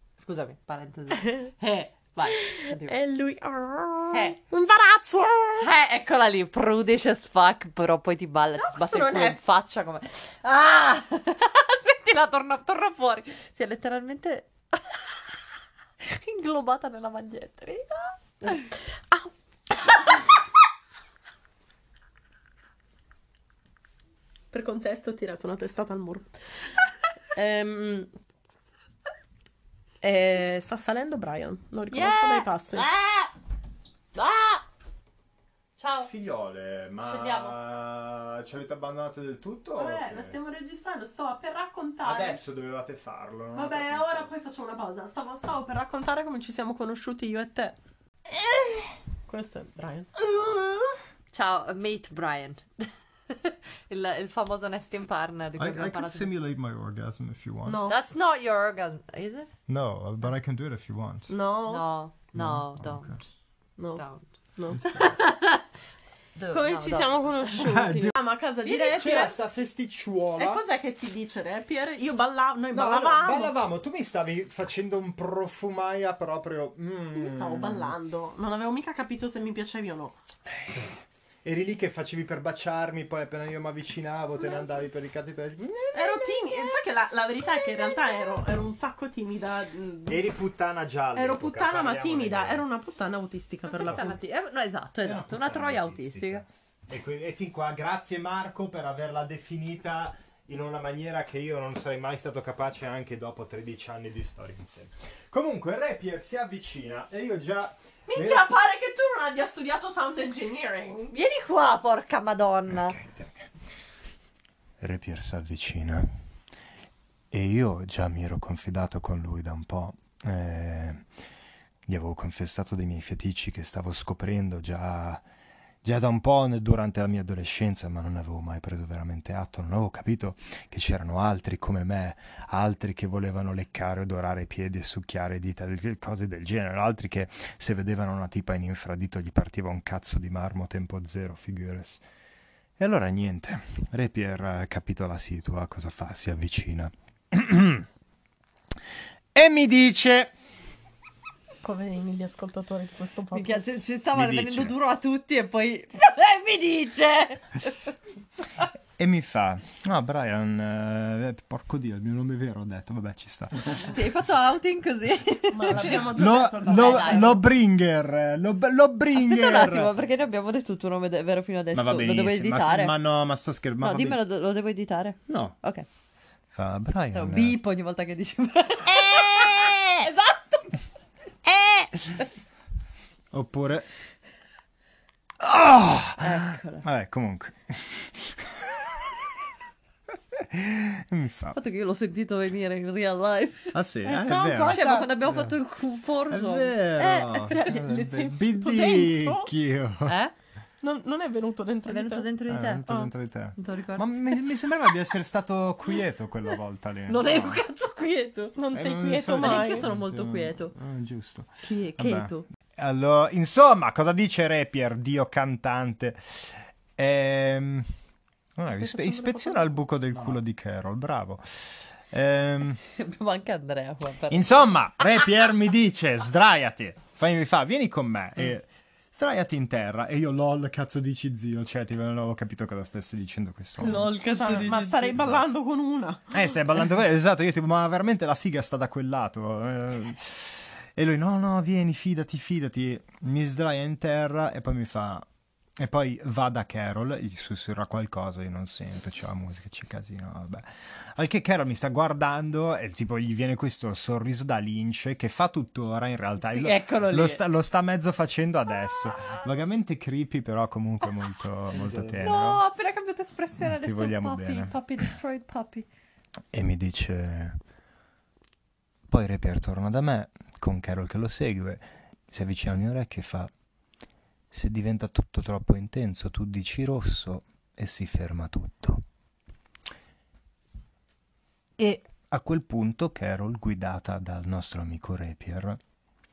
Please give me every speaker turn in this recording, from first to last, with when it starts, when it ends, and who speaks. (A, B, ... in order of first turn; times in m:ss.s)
0:00.2-0:03.0 A
0:01.1-0:01.5 B
0:02.3-0:05.7 B
0:04.1-0:04.4 A
0:05.6-0:15.3 A
0:08.6-0:09.4 B
0:16.0-0:18.7 A
0:18.4-0:20.0 B
0:24.5-0:26.3 B
0:27.3-0:28.1 B
0:30.0-0:32.9 B
0:31.9-0:33.3 A
0:34.2-0:34.6 A
0:35.8-0:36.1 A
0:36.0-0:40.4 C
0:37.0-0:37.6 A
0:39.8-0:42.4 B
0:42.0-0:44.3 C
0:43.5-0:47.8 B
0:49.3-0:50.2 B
0:51.3-0:56.3 A
0:55.6-0:57.9 C
0:57.7-0:58.0 B
0:57.8-0:59.5 A
0:59.7-1:01.3 C
1:01.3-1:01.9 B
1:01.7-1:03.2 A
1:02.4-1:03.2 C
1:03.8-1:04.0 B
1:04.0-1:05.6 A
1:04.6-1:05.0 B
1:04.7-1:05.2 C
1:06.4-1:07.7 A
1:06.5-1:09.4 B
1:07.6-1:08.1 C
1:08.9-1:10.6 C
1:10.4-1:13.6 B
1:12.7-1:17.9 C
1:17.2-1:20.2 B
1:20.6-1:26.7 C
1:25.9-1:30.3 B
1:30.1-1:32.6 C
1:31.2-1:34.2 B
1:33.7-1:36.4 A
1:35.0-1:48.5 C
1:48.1-1:51.2 B
1:51.1-1:53.0 A
1:52.7-1:53.5 C
1:54.8-1:56.2 C
1:57.3-2:01.1 C
2:01.9-2:05.2 C
2:05.8-2:22.0 C
2:22.8-2:27.9 C
2:29.3-2:30.3 C
2:31.6-2:33.6 B
2:33.3-2:37.9 A
2:34.1-2:34.7 C
2:39.0-2:44.0 C
2:43.7-2:47.4 A
2:45.5-2:47.4 B
2:45.7-2:50.0 C
2:49.2-2:53.0 A
2:51.7-2:54.2 C
2:53.8-2:55.9 A
2:55.3-2:55.6 C
2:56.5-2:57.6 C
2:57.1-3:00.7 A
2:58.9-2:59.8 C
3:01.5-3:02.2 A
3:03.3-3:03.9 C
3:05.4-3:09.3 C
3:06.2-3:06.9 A
3:10.3-3:11.6 C
3:11.5-3:13.8 A
3:13.7-3:15.6 C
3:14.1-3:15.2 B
3:14.6-3:17.5 A
3:16.3-3:20.2 C
3:17.5-3:19.5 B
3:20.1-3:20.3 A
3:20.8-3:22.3 B
3:21.9-3:22.9 A
3:22.5-3:27.6 C
3:22.9-3:23.1 B
3:23.6-3:24.4 A
3:27.1-3:28.6 A
3:28.6-3:29.9 B
3:28.7-3:37.9 C
3:29.3-3:30.8 A
3:31.6-3:32.4 A
3:38.6-3:42.8 C
3:38.7-3:39.8 B
3:42.8-3:44.7 A
3:44.3-3:54.2 C
3:53.8-3:55.2 A
3:53.9-3:56.5 B
3:55.1-3:55.4 C
3:56.3-4:05.3 C
4:05.8-4:22.6 C
4:16.4-4:17.4 A
4:22.2-4:25.9 A
4:23.6-4:24.8 C
4:26.5-4:27.6 C
4:29.1-4:33.5 C
4:34.5-4:39.0 C
4:41.8-4:45.8 C